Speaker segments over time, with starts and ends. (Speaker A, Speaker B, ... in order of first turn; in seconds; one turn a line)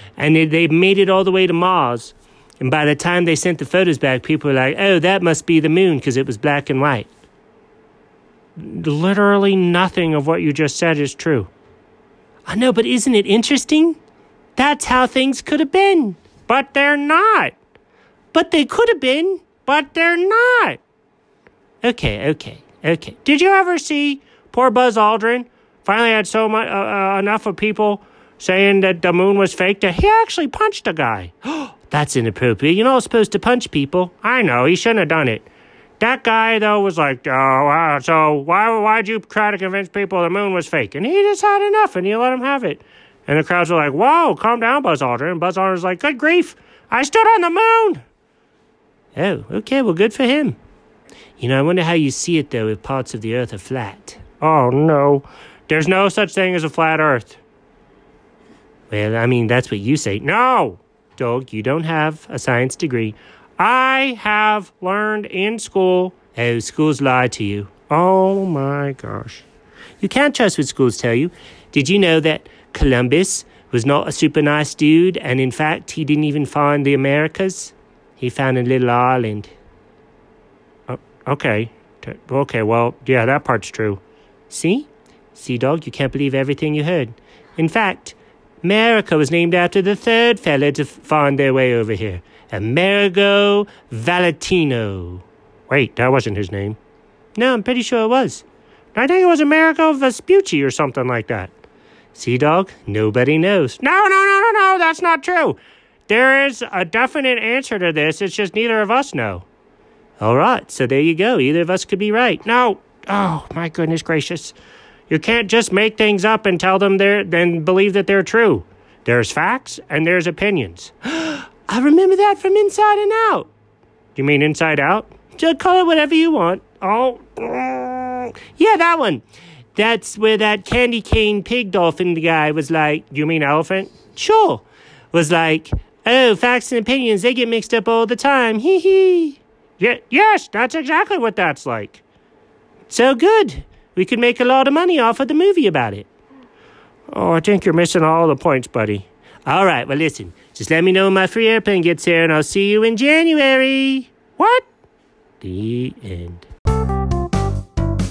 Speaker A: 0.2-7.1
Speaker A: 8.6-11.5
Speaker A: 12.5-14.0
Speaker A: 14.6-17.5
Speaker A: 18.3-20.8
Speaker A: 21.8-35.5
Speaker A: 36.0-48.0
Speaker A: 49.1-50.6
Speaker A: 51.4-57.4
Speaker A: 58.9-69.5
Speaker A: 70.0-79.5
Speaker A: 80.9-96.8
Speaker A: 97.3-101.5
Speaker A: 102.1-109.5
Speaker A: 110.2-114.5
Speaker A: 115.1-123.5
Speaker A: 124.1-129.2
Speaker A: 129.7-142.0
Speaker A: 142.9-146.1
Speaker A: 147.1-154.7
Speaker A: 155.4-156.5